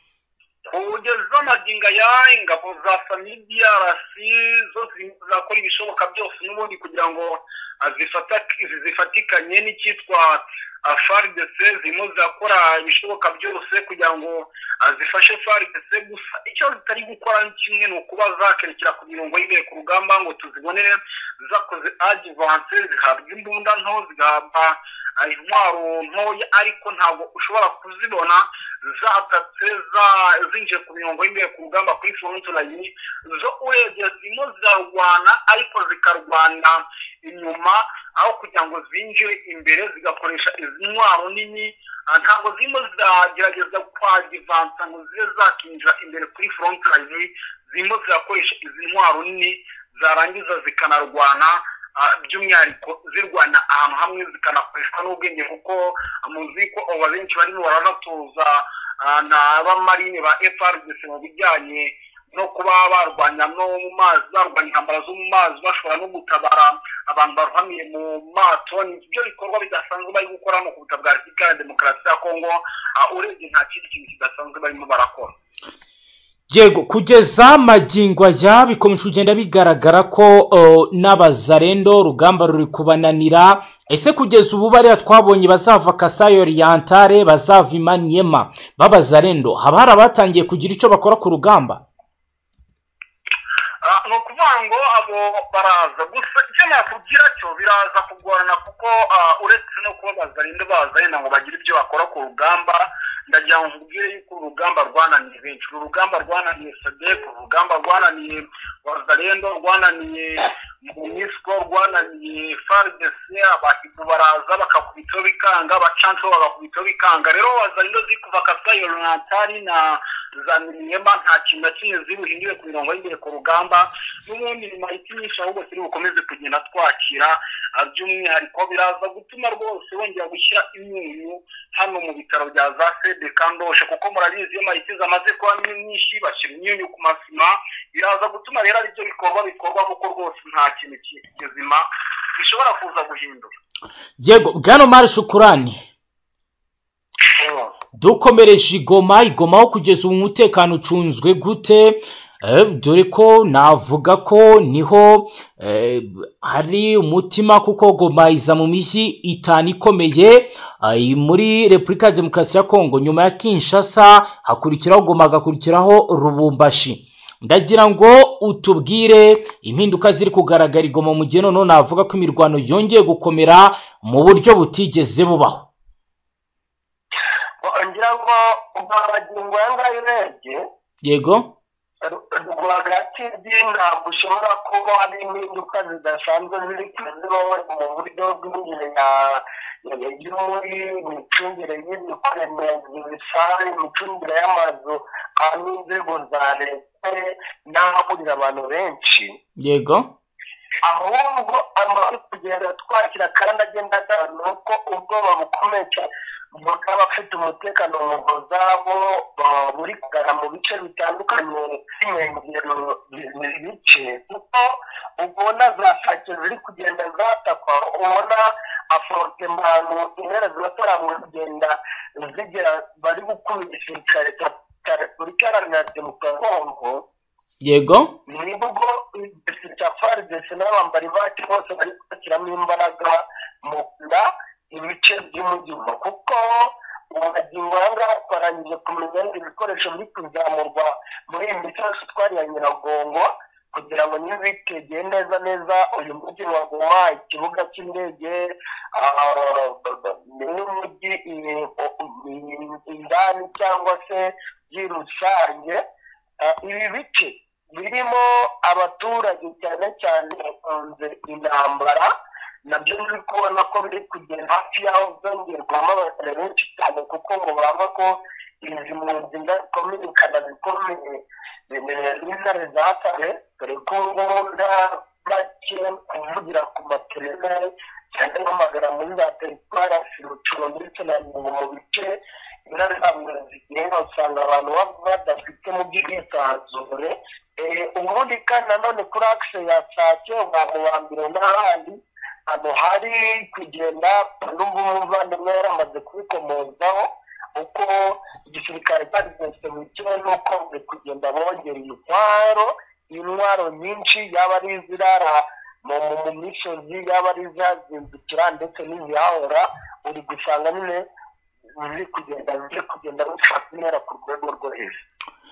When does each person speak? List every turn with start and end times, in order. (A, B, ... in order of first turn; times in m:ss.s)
0:00.7-1:15.3 A
1:16.5-1:31.8 B
1:33.8-2:21.8 A
2:22.4-2:23.5 A
2:24.2-2:25.8 B
2:27.4-2:27.7 C
2:28.0-2:55.7 B
2:57.6-3:00.6 C
3:01.0-3:01.5 B
3:02.0-3:19.4 C
3:19.6-3:20.1 B
3:20.8-3:47.0 C
3:47.6-3:48.1 B
3:48.3-4:15.8 C
4:16.4-4:22.1 C
4:22.6-5:11.0 C
5:11.8-5:15.0 C